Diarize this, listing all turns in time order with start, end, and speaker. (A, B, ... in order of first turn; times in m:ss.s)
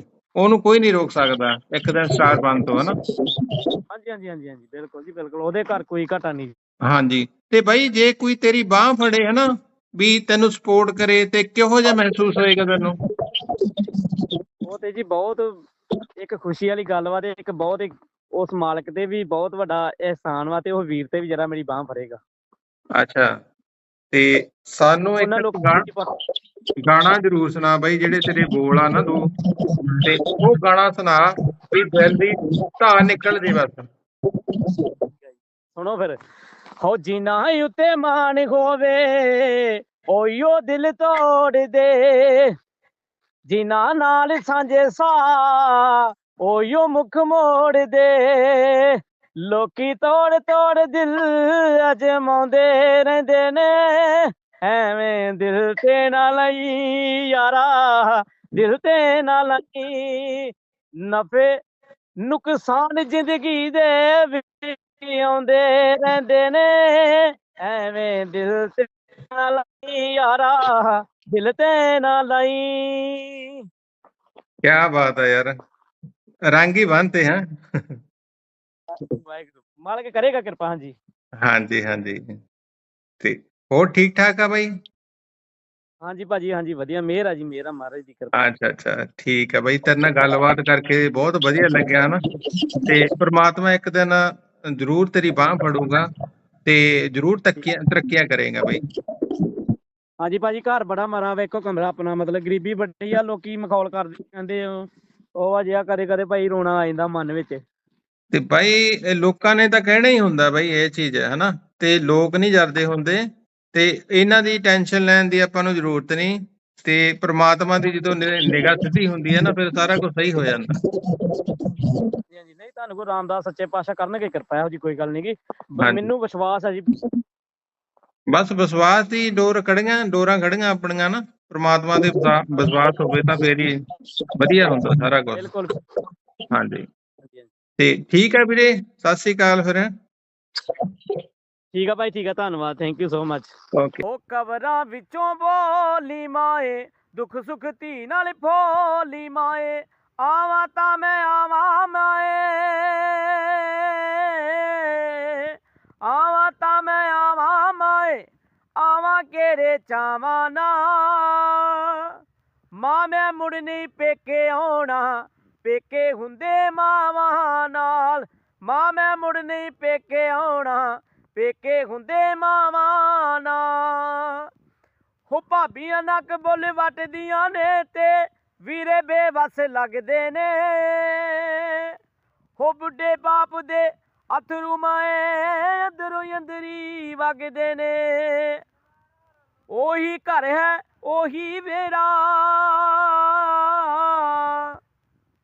0:00.4-0:03.0 A
0:03.9-0:06.5 B
0:06.9-0:09.4 A
0:10.0-0:13.0 A
0:14.7-0:15.7 B
0:16.2-0:22.2 B
0:23.0-0:23.3 A
0:24.1-0:25.9 A
0:25.2-0:26.1 B
0:26.8-0:29.2 A
0:30.0-0:33.9 A
0:35.3-0:36.2 B
0:36.8-0:42.5 B
0:43.5-1:00.5 B
1:01.1-1:01.6 B
1:02.2-1:13.7 B
1:14.6-1:15.5 A
1:16.5-1:17.9 A
1:19.1-1:21.0 B
1:21.4-1:22.3 A
1:23.2-1:24.7 A
1:26.0-1:28.5 B
1:28.4-1:32.2 A
1:32.9-1:36.1 A
1:36.6-1:38.8 A
1:40.2-1:44.9 B
1:45.4-1:47.6 B
1:48.3-1:53.2 A
1:53.7-2:00.7 A
2:02.3-2:06.9 B
2:05.8-2:06.0 A
2:08.3-2:13.8 A
2:14.4-2:15.4 A
2:15.3-2:15.8 B
2:16.5-2:16.8 A
2:17.2-2:17.5 B
2:17.8-2:19.9 A
2:21.7-2:35.5 B
2:36.0-2:38.3 B
2:38.8-2:42.1 B
2:42.8-2:54.5 B
2:55.3-3:01.9 B
3:02.6-3:08.6 B
3:09.7-3:14.8 B